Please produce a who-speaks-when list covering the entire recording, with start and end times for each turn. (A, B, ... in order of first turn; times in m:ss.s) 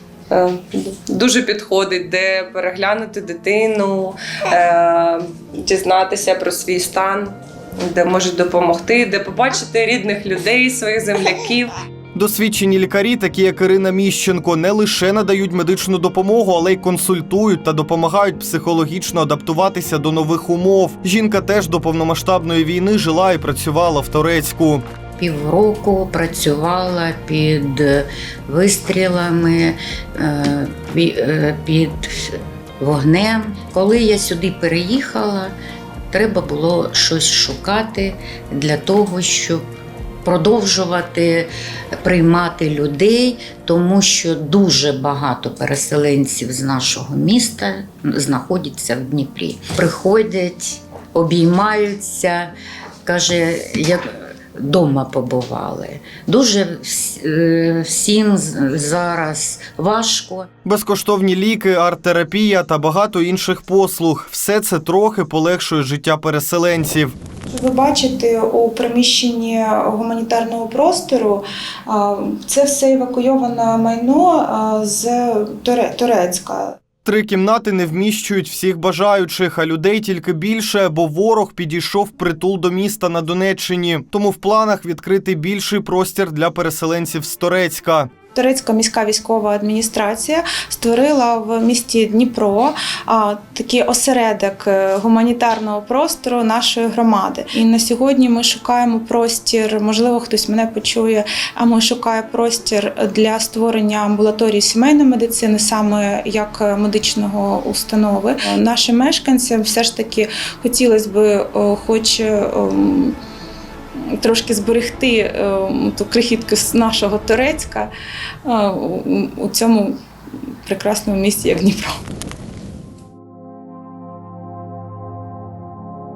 0:00.3-0:07.3 A
0:07.9-0:11.7 A
0:12.1-0:24.8 B
0:25.2-0:35.5 C
0:36.1-0:39.7 C
0:40.2-0:52.5 C
0:53.0-1:00.5 C
1:00.6-1:07.1 B
1:07.5-1:16.8 D
1:17.0-1:28.1 B
1:28.3-1:53.2 D
1:54.1-1:57.9 D
1:58.4-2:00.0 D
2:00.6-2:01.9 D